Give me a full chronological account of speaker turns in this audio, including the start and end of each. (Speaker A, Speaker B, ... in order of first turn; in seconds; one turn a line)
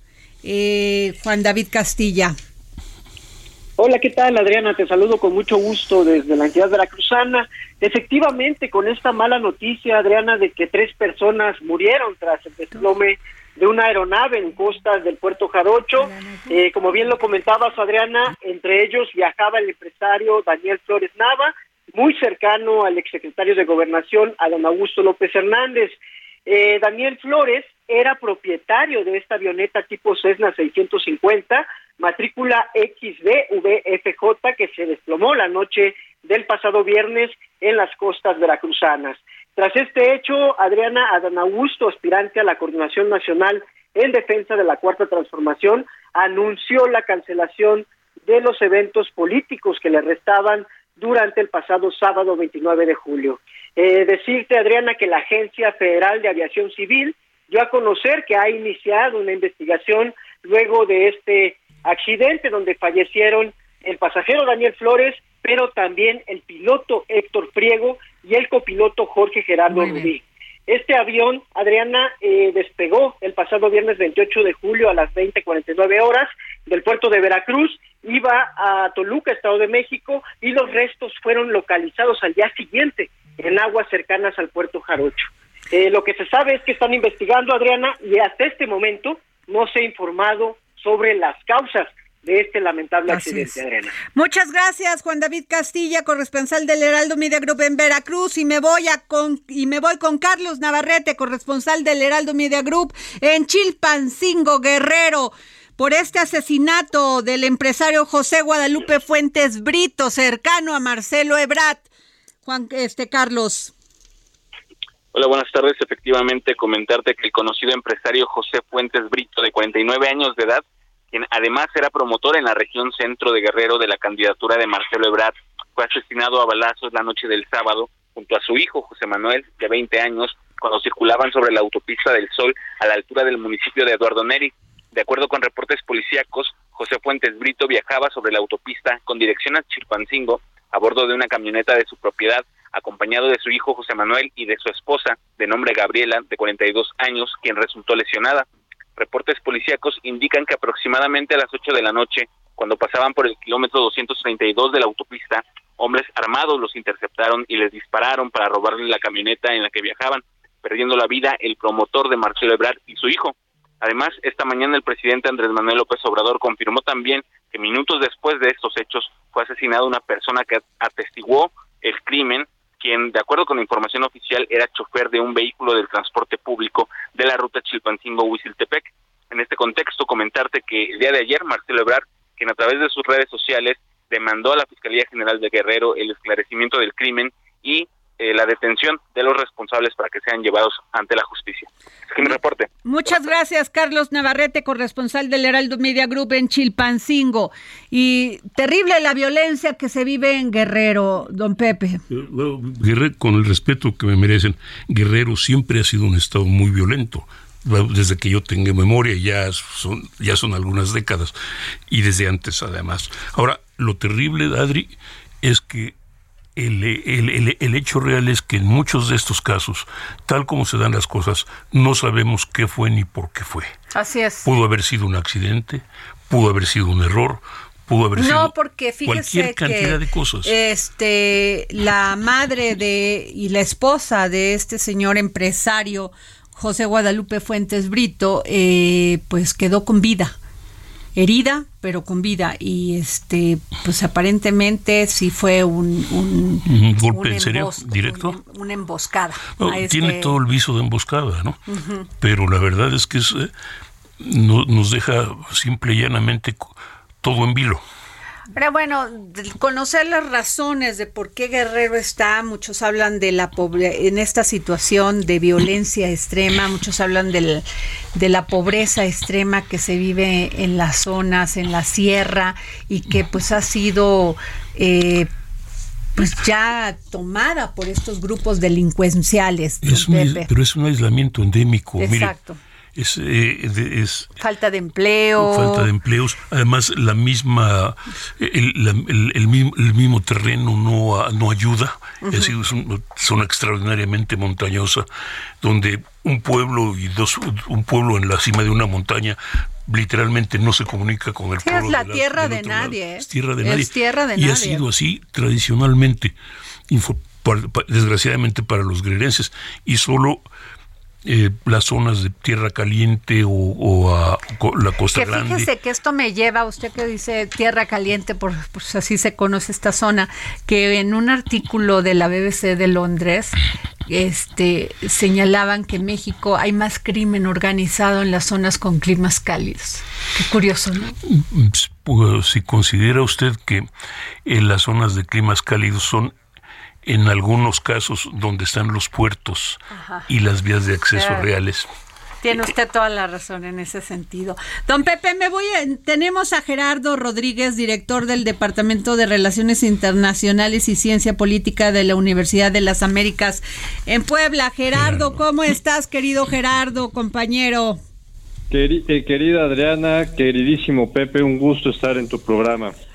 Speaker A: 0.4-2.4
Speaker B: 3.8-93.9
Speaker A: 16.0-16.6
Speaker A: 69.7-70.1
Speaker A: 93.1-93.5
Speaker A: 94.1-111.9
Speaker A: 112.5-113.7
Speaker C: 115.1-148.5
Speaker C: 149.0-192.7
Speaker A: 192.8-202.0
Speaker D: 202.1-211.3
Speaker D: 211.9-215.9
Speaker D: 216.6-223.7
Speaker A: 223.9-224.5
Speaker D: 224.4-230.5
Speaker A: 228.2-240.3
Speaker A: 241.2-250.4
Speaker D: 246.7-248.4
Speaker D: 249.6-251.6
Speaker A: 251.7-252.1
Speaker D: 252.2-253.5
Speaker D: 254.2-257.8
Speaker A: 258.6-275.3
Speaker A: 276.2-280.5
Speaker D: 279.8-282.4
Speaker A: 282.0-282.6
Speaker D: 283.0-284.3
Speaker A: 284.4-285.9
Speaker D: 285.4-295.1
Speaker A: 292.2-292.5
Speaker D: 295.6-306.3
Speaker A: 301.6-304.9
Speaker D: 306.9-310.4
Speaker D: 311.2-315.7
Speaker A: 315.1-331.2
Speaker D: 331.3-333.9
Speaker D: 334.5-336.3
Speaker D: 337.1-341.9
Speaker A: 339.9-340.3
Speaker A: 341.1-341.5
Speaker A: 342.4-358.0
Speaker E: 358.7-362.9